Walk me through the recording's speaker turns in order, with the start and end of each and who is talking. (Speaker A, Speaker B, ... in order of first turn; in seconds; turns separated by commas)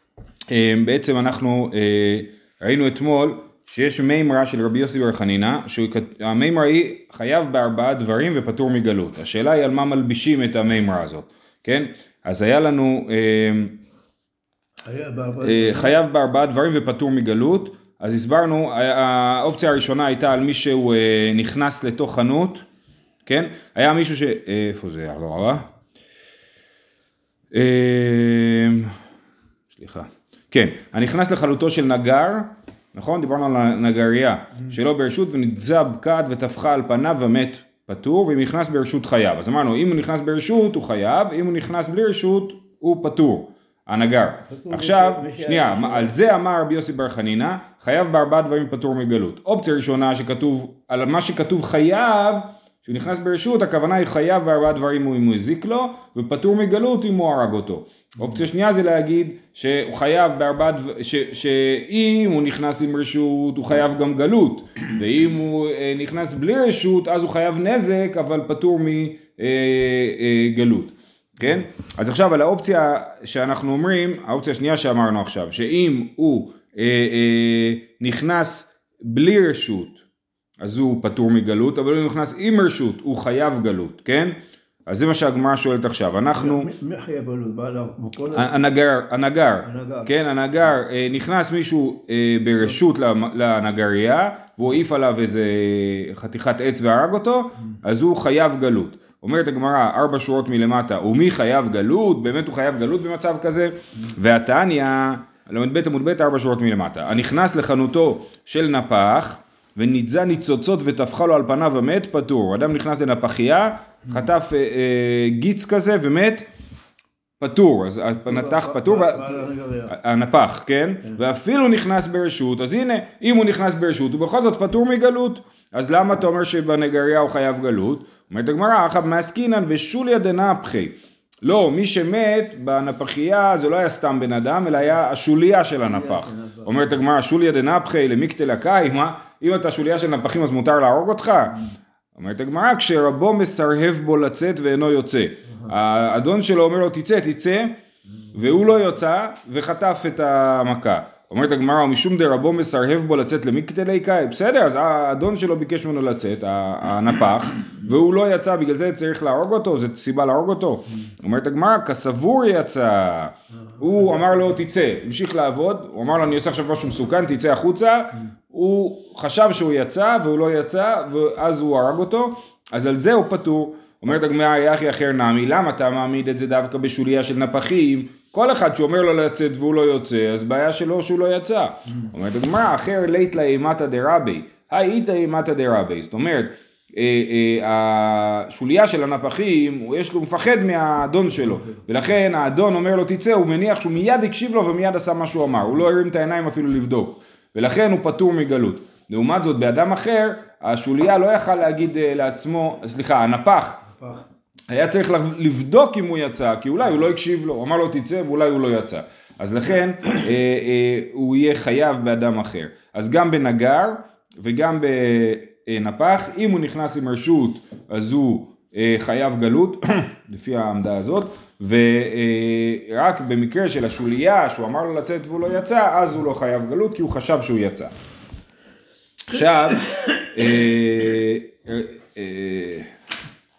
Speaker A: 0.5-13.8, Speaker B: 14.8-16.0, Speaker A: 15.4-22.6, Speaker A: 23.2-25.6, Speaker A: 27.5-28.9, Speaker A: 29.7-80.0, Speaker B: 44.5-46.2, Speaker A: 80.6-84.3, Speaker A: 84.9-86.7, Speaker B: 86.4-88.5, Speaker A: 88.3-116.5, Speaker B: 89.6-90.1, Speaker A: 117.4-141.6, Speaker B: 118.2-119.9, Speaker B: 135.9-136.7, Speaker A: 142.1-147.7, Speaker A: 148.3-203.8, Speaker A: 204.7-227.9, Speaker A: 229.3-232.9